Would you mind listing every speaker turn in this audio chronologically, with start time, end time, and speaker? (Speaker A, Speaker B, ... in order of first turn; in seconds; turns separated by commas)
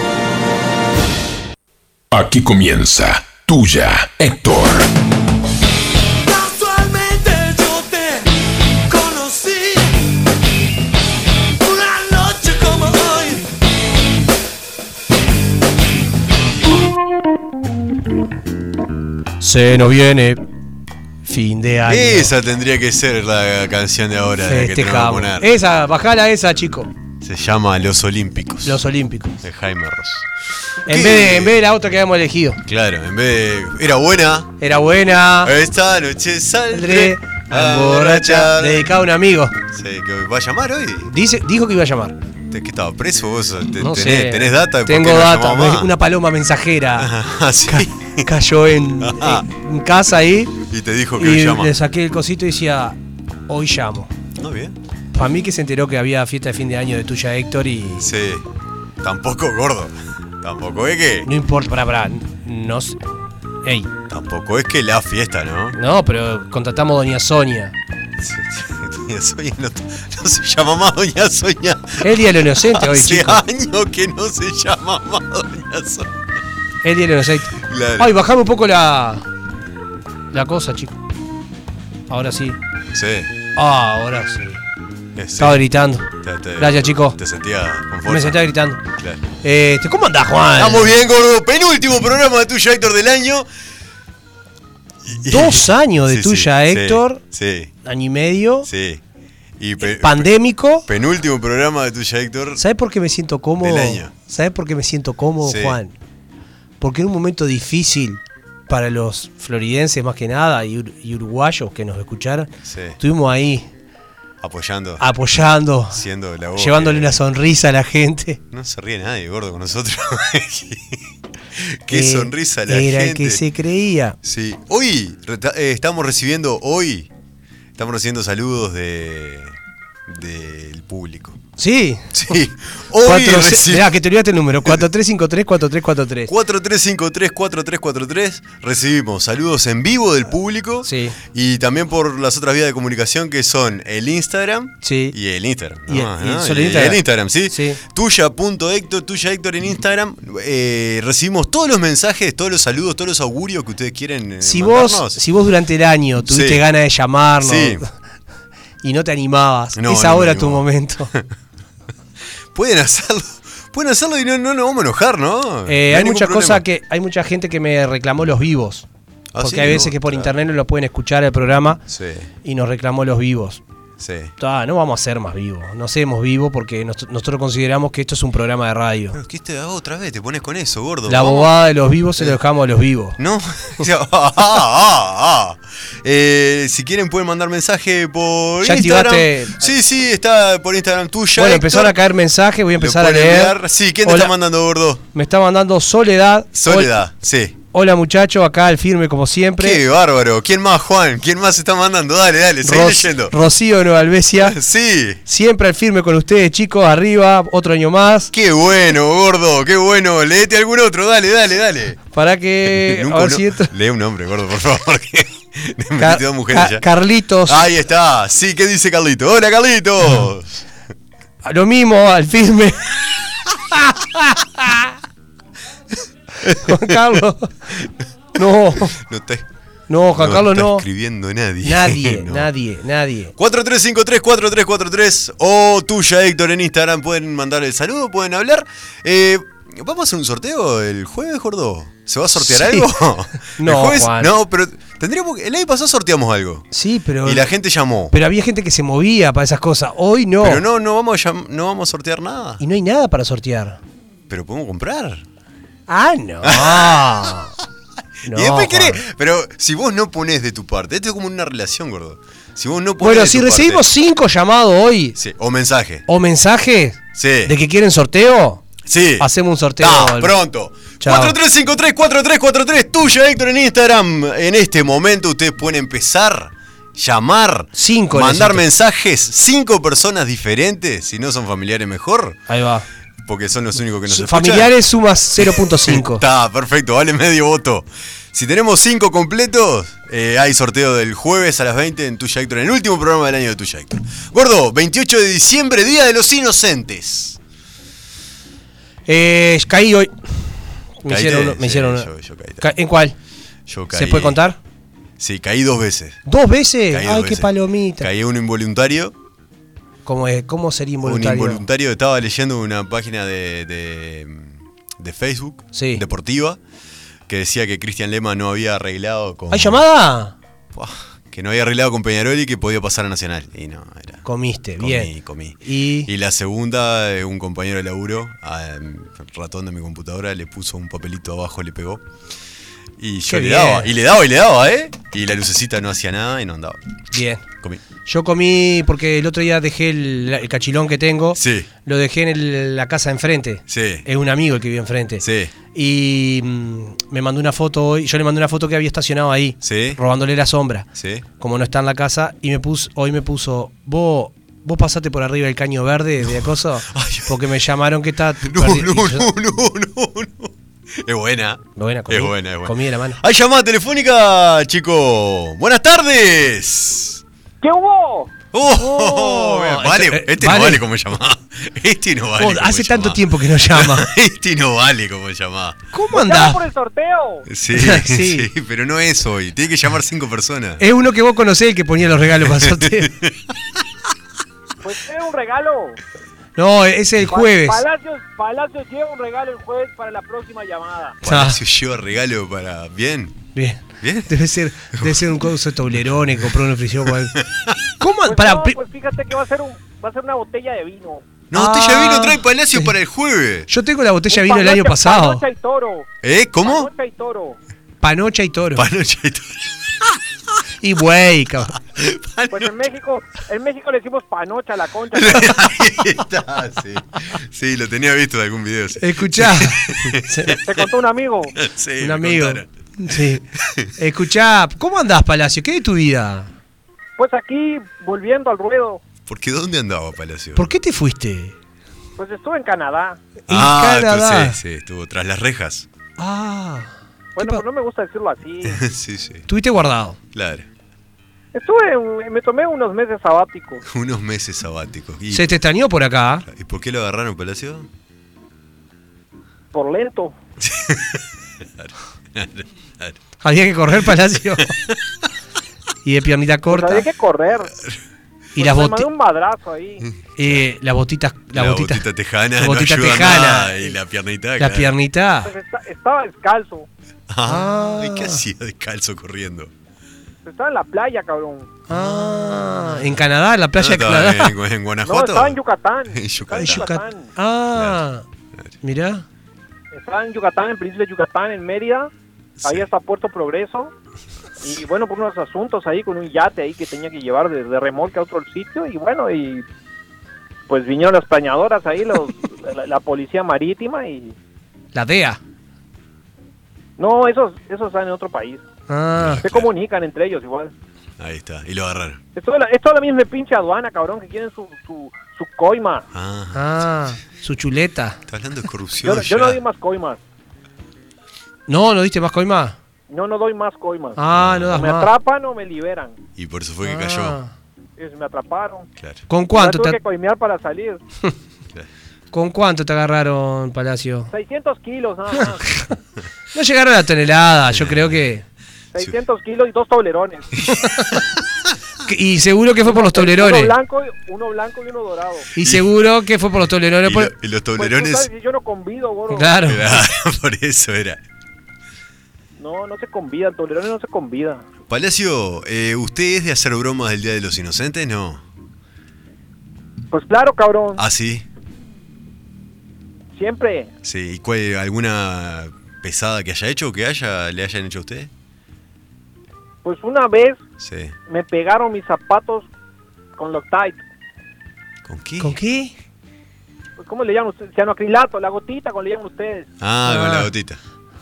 Speaker A: 2.1-4.9, Speaker B: 6.4-7.3, Speaker B: 8.9-9.5, Speaker B: 11.8-13.2, Speaker C: 19.4-20.4, Speaker C: 21.2-22.3, Speaker D: 21.9-25.5, Speaker C: 24.4-26.9, Speaker D: 27.2-28.8, Speaker C: 28.6-29.4, Speaker D: 29.4-30.3, Speaker C: 30.9-32.6, Speaker D: 30.9-31.5, Speaker D: 32.7-34.5, Speaker C: 34.6-35.5, Speaker D: 35.4-38.9, Speaker C: 36.7-39.6, Speaker D: 39.7-41.1, Speaker C: 41.1-42.1, Speaker D: 42.5-45.9, Speaker C: 43.8-47.1, Speaker D: 47.0-48.3, Speaker C: 47.7-50.5, Speaker D: 49.0-49.5, Speaker D: 50.6-51.7, Speaker C: 51.2-53.0, Speaker C: 53.5-54.1, Speaker D: 54.4-54.7, Speaker C: 55.1-58.1, Speaker D: 58.0-58.5, Speaker D: 59.0-61.3, Speaker C: 61.2-63.0, Speaker C: 63.6-63.9, Speaker D: 64.1-65.8, Speaker C: 65.7-67.7, Speaker D: 68.2-76.2, Speaker C: 72.0-73.4, Speaker C: 76.8-79.2, Speaker D: 77.6-78.1, Speaker C: 80.3-80.9, Speaker C: 82.1-82.6, Speaker D: 82.9-83.3, Speaker C: 83.5-84.6, Speaker D: 85.2-85.6, Speaker C: 85.4-87.2, Speaker D: 86.2-89.2, Speaker C: 88.0-88.8, Speaker C: 89.4-90.9, Speaker D: 90.5-93.5, Speaker D: 95.0-97.7, Speaker C: 95.3-97.2, Speaker C: 97.8-98.7, Speaker D: 98.7-99.0, Speaker D: 99.6-100.3, Speaker C: 99.8-100.9, Speaker D: 100.8-102.6, Speaker C: 102.6-105.9, Speaker D: 103.6-104.1, Speaker D: 105.4-105.8, Speaker C: 106.8-113.7, Speaker D: 112.6-113.0, Speaker D: 114.4-115.0, Speaker C: 115.0-116.0, Speaker D: 115.9-117.2, Speaker C: 116.5-118.4, Speaker D: 118.5-121.0, Speaker D: 121.5-123.4, Speaker C: 121.9-124.2, Speaker D: 124.2-127.1, Speaker D: 127.8-131.4, Speaker C: 131.6-132.3, Speaker D: 132.1-134.0, Speaker C: 133.0-136.3, Speaker D: 136.2-155.2, Speaker C: 140.8-141.2, Speaker C: 144.8-145.1, Speaker C: 145.9-147.8, Speaker C: 154.4-157.9, Speaker D: 156.3-156.6, Speaker D: 157.4-157.8, Speaker C: 158.8-161.1, Speaker D: 159.8-161.3, Speaker D: 162.5-166.6, Speaker C: 165.7-168.8, Speaker D: 169.3-170.3, Speaker C: 169.4-171.8, Speaker D: 171.9-172.3, Speaker C: 172.4-173.6, Speaker D: 174.0-174.3, Speaker C: 174.4-179.2, Speaker D: 179.1-181.5, Speaker C: 181.1-183.2, Speaker D: 183.2-192.0, Speaker C: 188.6-189.7, Speaker C: 191.3-194.3, Speaker D: 192.7-195.0, Speaker C: 195.1-196.9, Speaker D: 196.5-197.5, Speaker C: 197.7-199.8, Speaker D: 199.6-203.3, Speaker C: 202.6-204.6, Speaker D: 204.4-205.2, Speaker C: 205.2-208.3, Speaker D: 208.3-212.0, Speaker C: 212.1-213.7, Speaker D: 212.6-216.9, Speaker C: 216.0-217.6, Speaker D: 217.4-220.6, Speaker C: 221.4-223.1, Speaker C: 223.7-224.9, Speaker D: 226.4-227.0, Speaker C: 226.4-227.7, Speaker C: 228.3-229.0, Speaker D: 228.8-229.5, Speaker C: 229.9-230.8, Speaker D: 230.1-232.5, Speaker C: 231.6-233.3, Speaker D: 233.4-246.7, Speaker C: 242.4-244.3, Speaker C: 246.7-247.5, Speaker D: 247.2-248.1, Speaker C: 248.1-250.6, Speaker D: 250.4-252.6, Speaker C: 252.6-253.8, Speaker D: 254.3-255.2, Speaker C: 255.9-257.5, Speaker D: 256.4-257.4, Speaker C: 258.2-259.0, Speaker D: 258.2-263.9, Speaker C: 263.0-265.2, Speaker D: 265.1-266.0, Speaker C: 266.1-268.6, Speaker D: 267.1-267.6, Speaker D: 268.8-282.4, Speaker C: 269.2-270.4, Speaker C: 271.0-271.4, Speaker C: 277.7-278.6, Speaker C: 282.5-282.8, Speaker D: 283.2-284.7, Speaker C: 284.1-286.2, Speaker D: 285.4-297.4, Speaker C: 299.1-302.1, Speaker D: 301.1-302.7, Speaker C: 302.6-303.1, Speaker D: 303.7-304.4, Speaker C: 303.9-304.6, Speaker D: 305.2-306.2, Speaker C: 306.2-308.1, Speaker D: 306.9-309.1, Speaker C: 310.0-311.6, Speaker D: 311.0-316.6, Speaker C: 315.7-316.0, Speaker D: 317.3-319.8, Speaker C: 319.5-320.4, Speaker D: 320.7-324.2, Speaker C: 324.2-326.1, Speaker D: 324.8-332.0, Speaker D: 333.0-336.8, Speaker C: 333.3-333.9, Speaker C: 337.1-337.4, Speaker C: 338.0-350.9, Speaker D: 341.3-341.7, Speaker D: 343.7-344.1, Speaker D: 345.2-345.5, Speaker D: 349.6-350.0, Speaker D: 350.9-351.2, Speaker C: 351.4-359.3, Speaker D: 356.9-357.4, Speaker D: 358.4-367.2, Speaker C: 361.8-363.2, Speaker E: 367.6-368.3, Speaker D: 368.5-375.8, Speaker C: 368.8-370.8, Speaker C: 372.4-374.1, Speaker C: 375.9-376.6, Speaker E: 376.1-377.5, Speaker D: 377.5-380.8, Speaker C: 377.7-378.5, Speaker C: 380.8-383.1, Speaker D: 382.4-383.5, Speaker E: 384.8-386.0, Speaker C: 386.6-387.8, Speaker E: 387.3-391.2, Speaker C: 391.2-391.6, Speaker D: 391.2-393.5, Speaker C: 393.5-397.4, Speaker D: 394.0-394.3, Speaker D: 394.9-395.4, Speaker D: 397.1-397.8, Speaker C: 398.0-398.8, Speaker E: 398.2-401.2, Speaker D: 401.5-403.7, Speaker C: 401.5-402.9, Speaker C: 403.7-405.4, Speaker E: 404.3-406.1, Speaker D: 406.2-406.9, Speaker E: 406.6-407.6, Speaker C: 408.0-408.9, Speaker D: 408.7-410.2, Speaker C: 410.8-411.7, Speaker D: 411.8-412.7, Speaker E: 412.5-415.6, Speaker D: 415.1-420.9, Speaker C: 419.0-420.6, Speaker E: 420.6-421.6, Speaker D: 421.6-422.7, Speaker C: 422.0-423.4, Speaker D: 423.6-423.9, Speaker C: 423.9-426.5, Speaker E: 427.2-429.0, Speaker D: 429.2-430.7, Speaker C: 430.5-431.5, Speaker E: 432.2-433.2, Speaker C: 433.5-434.6, Speaker D: 433.5-435.9, Speaker C: 436.2-437.6, Speaker E: 437.4-438.8, Speaker D: 438.6-439.4, Speaker C: 439.5-440.2, Speaker D: 440.3-440.7, Speaker E: 441.5-443.8, Speaker D: 443.9-445.6, Speaker C: 445.3-446.4, Speaker D: 446.5-447.9, Speaker E: 449.7-450.3, Speaker D: 450.6-453.2, Speaker C: 453.4-454.7, Speaker C: 456.0-457.1, Speaker E: 456.7-457.7, Speaker E: 458.6-460.0, Speaker C: 458.6-459.1, Speaker D: 460.0-460.6, Speaker C: 460.4-462.0, Speaker D: 461.5-464.9, Speaker C: 462.6-463.9, Speaker C: 464.6-465.5, Speaker E: 465.4-466.9, Speaker D: 467.3-469.7, Speaker C: 467.5-468.4, Speaker E: 470.4-471.7, Speaker C: 471.9-474.5, Speaker D: 473.8-475.6, Speaker E: 475.0-477.3, Speaker D: 476.1-476.9, Speaker C: 476.6-478.2, Speaker C: 478.8-479.2, Speaker E: 479.9-482.1, Speaker E: 482.6-483.9, Speaker E: 484.6-489.6, Speaker E: 490.7-494.3, Speaker C: 494.9-495.4, Speaker E: 497.0-498.6, Speaker C: 498.9-499.4, Speaker D: 499.2-499.7, Speaker E: 499.4-500.7, Speaker D: 501.2-502.2, Speaker E: 502.4-506.1, Speaker D: 506.1-506.8, Speaker C: 506.5-508.2, Speaker D: 508.3-509.6, Speaker E: 509.0-510.2, Speaker C: 511.7-512.8, Speaker E: 513.1-514.2, Speaker C: 514.1-515.1, Speaker D: 514.3-514.8, Speaker E: 514.7-516.2, Speaker D: 516.4-517.4, Speaker C: 516.8-517.5, Speaker E: 518.0-518.9, Speaker C: 519.3-520.0, Speaker E: 519.5-521.0, Speaker C: 522.3-524.3, Speaker E: 524.3-525.8, Speaker C: 526.5-528.4, Speaker D: 527.7-528.2, Speaker E: 528.9-530.5, Speaker C: 530.7-531.1, Speaker C: 532.0-533.7, Speaker E: 532.8-535.5, Speaker C: 535.5-537.3, Speaker D: 535.6-535.9, Speaker D: 537.0-538.3, Speaker E: 537.8-539.6, Speaker C: 539.3-539.9, Speaker D: 539.6-541.2, Speaker E: 542.6-544.6, Speaker D: 544.9-548.4, Speaker E: 550.1-551.0, Speaker D: 551.0-551.5, Speaker E: 553.4-553.9, Speaker D: 554.0-558.3, Speaker E: 559.8-560.6, Speaker D: 560.8-561.1, Speaker E: 561.3-562.7, Speaker E: 563.4-564.0, Speaker D: 565.0-565.6, Speaker C: 565.4-565.9, Speaker E: 567.0-569.7, Speaker D: 569.8-570.8, Speaker C: 570.1-570.5